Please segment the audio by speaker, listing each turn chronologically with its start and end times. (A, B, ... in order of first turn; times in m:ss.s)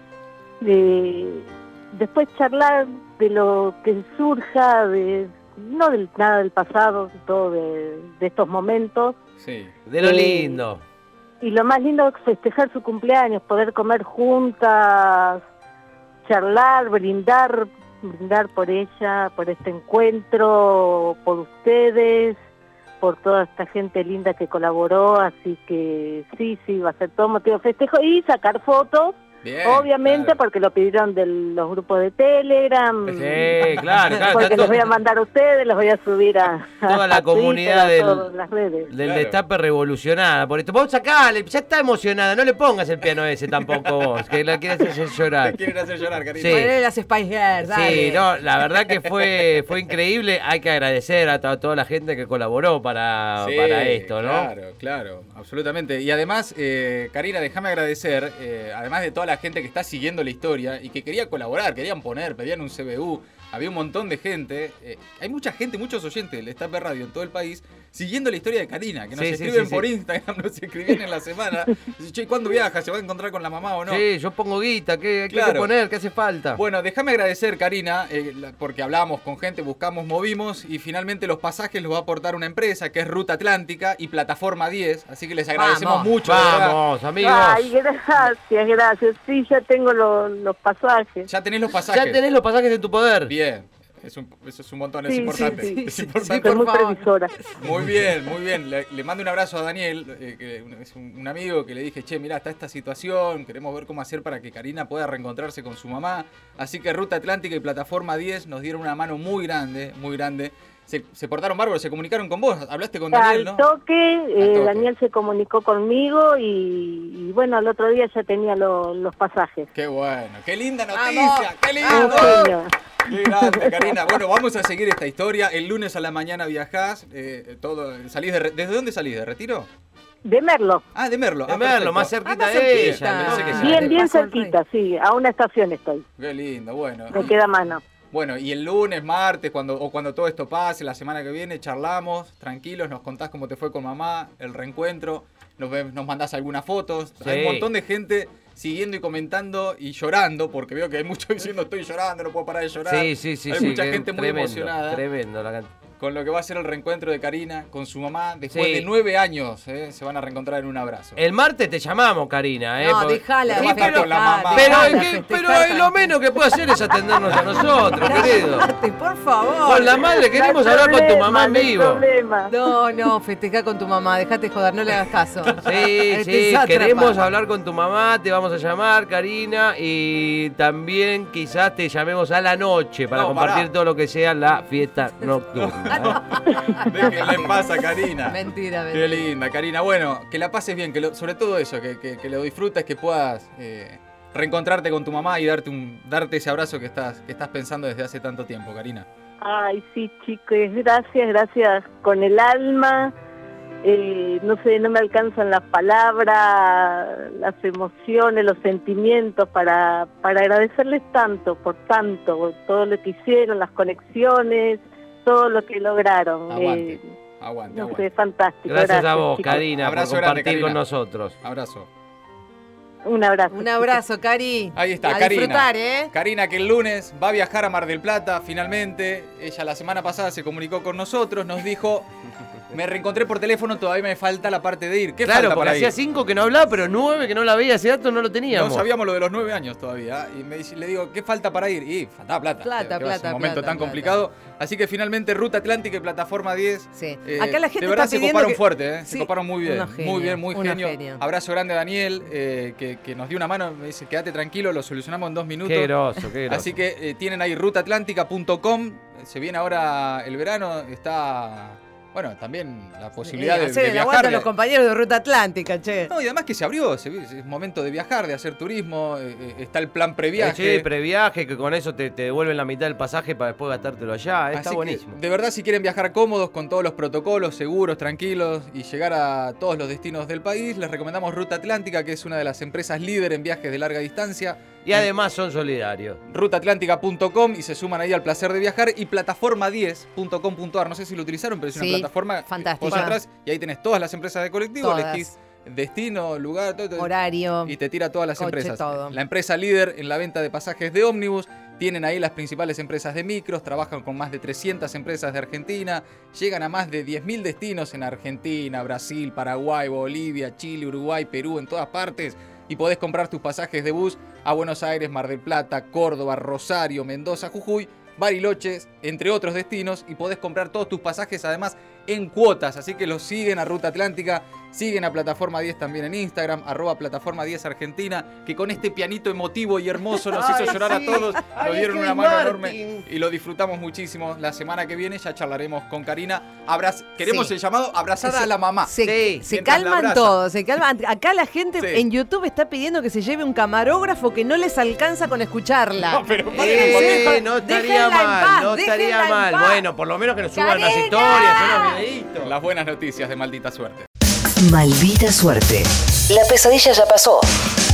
0:00.6-0:09.1 A
0:09.4-0:09.7 B
0:09.9-0:10.8 C
0:10.0-0:10.6 A
0:11.4-0:15.4 A
0:16.2-0:22.4 A
0:23.0-0:33.5 A
0:29.4-0:30.4 B
0:33.1-0:34.8 C
0:34.3-0:38.9 A
0:36.8-0:38.3 C
0:38.9-0:39.4 B
0:38.9-0:45.6 C
0:45.4-0:46.7 B
0:46.4-0:46.7 C
0:46.4-0:48.3 D
0:47.6-0:54.5 C
0:53.4-1:14.0 B
1:09.2-1:09.8 C
1:13.9-1:16.6 C
1:15.3-1:15.7 B
1:16.5-1:26.8 B
1:25.5-1:26.2 D
1:26.2-1:27.7 C
1:27.2-1:31.3 A
1:31.3-1:32.2 B
1:31.9-1:33.3 C
1:33.3-1:36.7 B
1:35.1-1:35.8 A
1:35.1-1:37.0 D
1:36.4-1:37.3 A
1:37.6-1:53.6 B
1:53.1-1:59.7 A
1:54.4-1:54.9 B
1:59.7-2:02.5 B
2:00.9-2:02.5 D
2:01.9-2:02.7 A
2:03.0-2:09.7 B
2:03.2-2:03.9 A
2:10.2-2:10.8 A
2:10.9-2:14.0 B
2:11.5-2:14.0 C
2:12.2-2:14.5 D
2:13.6-2:16.0 A
2:16.2-2:17.3 B
2:17.1-2:17.8 A
2:18.1-2:35.0 B
2:27.2-2:27.6 C
2:32.9-2:35.7 C
2:36.0-2:41.2 B
2:38.5-2:38.8 C
2:41.2-2:48.7 C
2:42.8-2:46.6 D
2:43.5-2:45.0 B
2:48.0-2:50.2 D
2:49.6-2:52.0 C
2:50.3-2:52.5 A
2:52.5-2:57.2 D
2:55.6-3:06.3 C
3:03.1-3:03.7 B
3:05.5-3:19.1 B
3:05.9-3:09.3 D
3:19.4-3:23.1 A
3:23.8-3:37.0 A
3:36.5-3:38.1 B
3:37.7-3:39.6 A
3:38.7-3:41.3 C
3:39.4-3:40.8 B
3:41.4-3:41.9 B
3:43.0-3:44.0 A
3:43.5-3:46.1 D
3:44.7-3:52.1 B
3:52.7-3:55.9 B
3:55.2-3:58.8 C
3:58.5-4:15.9 B
4:02.6-4:04.2 D
4:06.9-4:11.2 D
4:15.6-4:16.7 C
4:16.5-4:24.5 B
4:23.2-4:26.1 D
4:26.1-4:30.9 B
4:30.4-4:35.1 C
4:34.5-4:45.1 B
4:44.8-4:46.2 C
4:46.3-4:57.1 B
4:51.7-4:53.2 D
4:54.8-4:55.3 D
4:57.0-4:57.8 D
4:57.6-5:40.4 B
4:58.4-4:59.2 D
5:30.3-5:33.0 C
5:37.2-5:37.5 D
5:38.2-5:49.8 D
5:39.0-5:39.4 C
5:41.8-5:42.1 B
5:46.0-5:47.4 B
5:46.5-5:52.5 C
5:50.5-5:52.0 D
5:52.4-5:54.1 B
5:54.6-5:57.5 E